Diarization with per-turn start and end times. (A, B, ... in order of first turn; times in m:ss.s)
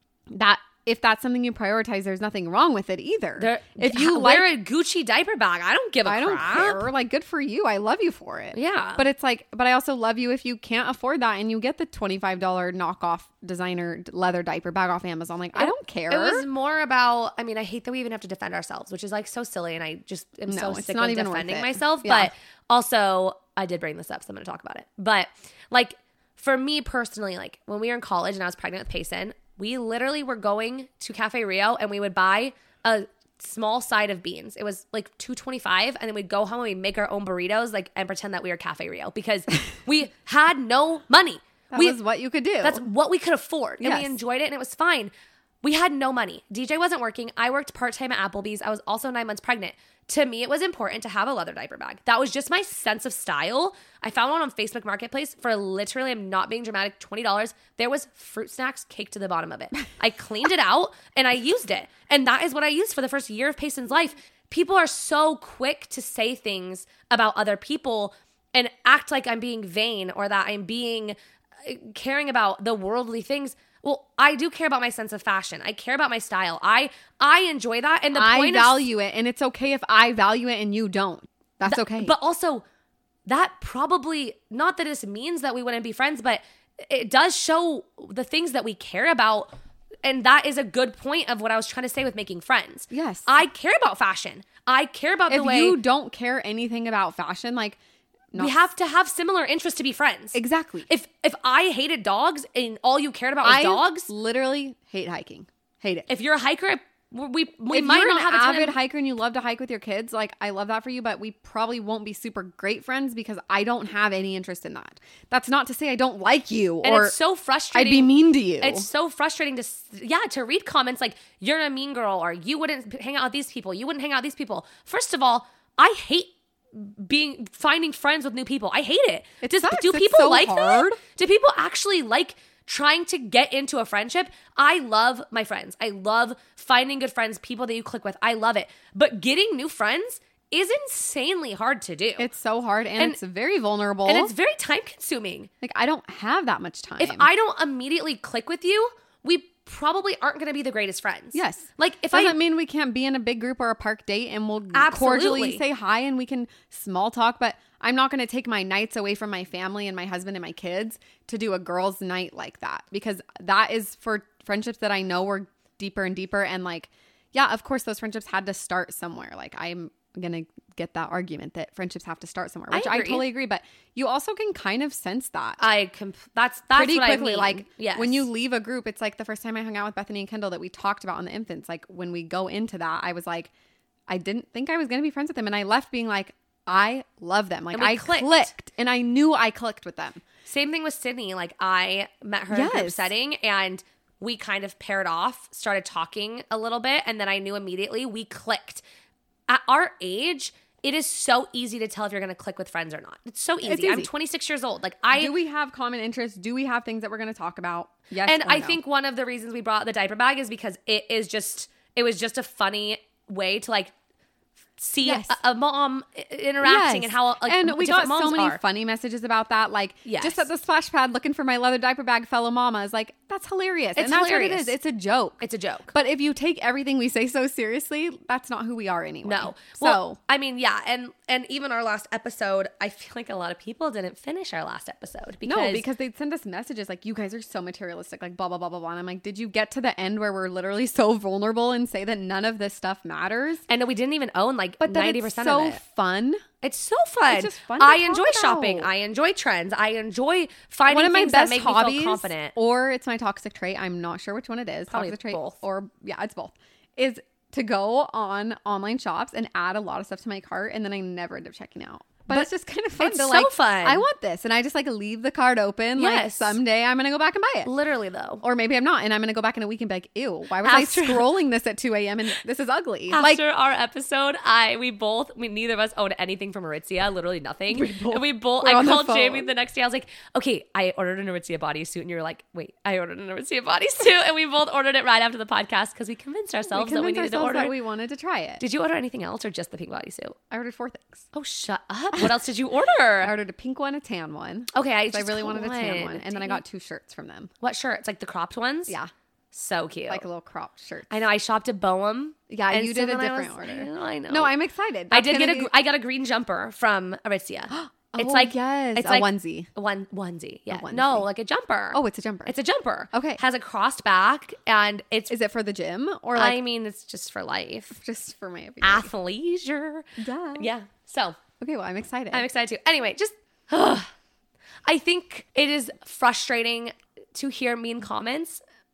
0:00.3-0:04.6 A
0:03.4-0:06.9 B
0:06.0-0:16.4 A
0:08.5-0:09.0 B
0:15.6-0:42.0 B
0:20.5-0:22.3 A
0:41.7-0:42.8 A
0:42.6-1:18.9 B
0:43.8-0:44.2 A
1:18.1-1:22.1 A
1:21.6-1:22.6 B
1:23.2-1:35.8 B
1:32.9-1:33.3 A
1:35.3-1:37.8 A
1:38.3-1:38.6 A
1:38.3-1:44.1 B
1:40.3-1:40.9 A
1:43.4-1:46.1 A
1:46.1-1:48.8 B
1:47.7-1:57.2 A
1:56.8-2:22.3 B
1:57.7-1:58.9 A
2:09.4-2:11.0 A
2:22.2-2:24.3 A
2:24.0-2:25.5 B
2:25.6-2:27.3 A
2:27.0-2:32.4 B
2:31.3-2:55.6 A
2:34.7-2:35.6 B
2:52.7-2:53.3 B
2:55.6-2:58.3 B
2:56.7-3:03.5 A
3:04.1-3:10.2 A
3:07.7-3:08.5 B
3:10.4-3:18.8 B
3:12.5-3:13.1 A
3:19.5-3:25.3 B
3:23.6-3:24.1 A
3:25.1-3:28.8 A
3:28.2-3:33.9 B
3:34.8-3:38.6 B
3:35.0-3:35.4 A
3:36.6-3:50.2 A
3:40.0-3:40.5 B
3:44.0-3:44.7 B
3:45.4-3:45.9 B
3:49.2-3:55.8 B
3:55.4-4:03.6 A
4:03.7-4:05.8 B
4:04.8-4:06.4 A
4:06.6-4:12.5 B
4:07.3-4:08.9 A
4:10.9-4:27.7 A
4:14.9-4:15.6 B
4:22.3-4:24.0 B
4:26.0-4:26.6 B
4:27.6-4:28.4 B
4:28.4-4:33.4 A
4:30.6-4:31.3 B
4:33.1-4:47.8 B
4:37.7-4:39.5 A
4:46.7-4:48.6 A
4:48.6-4:50.4 B
4:50.5-4:51.3 A
4:51.3-4:53.3 B
4:53.2-4:57.5 A
4:54.7-4:56.6 B
4:57.6-4:59.0 B
4:59.5-5:00.2 B
5:00.1-5:01.1 A
5:01.1-5:04.5 B
5:02.5-5:05.7 A
5:05.1-5:15.3 B
5:07.7-5:09.7 A
5:10.7-5:11.3 A
5:11.9-5:12.5 A
5:13.1-5:13.4 A
5:15.3-5:16.6 A
5:16.3-5:18.0 B
5:17.9-5:19.1 A
5:18.8-5:21.4 B
5:20.2-5:20.7 A
5:21.6-5:22.4 A
5:22.3-5:24.1 B
5:24.9-5:28.6 B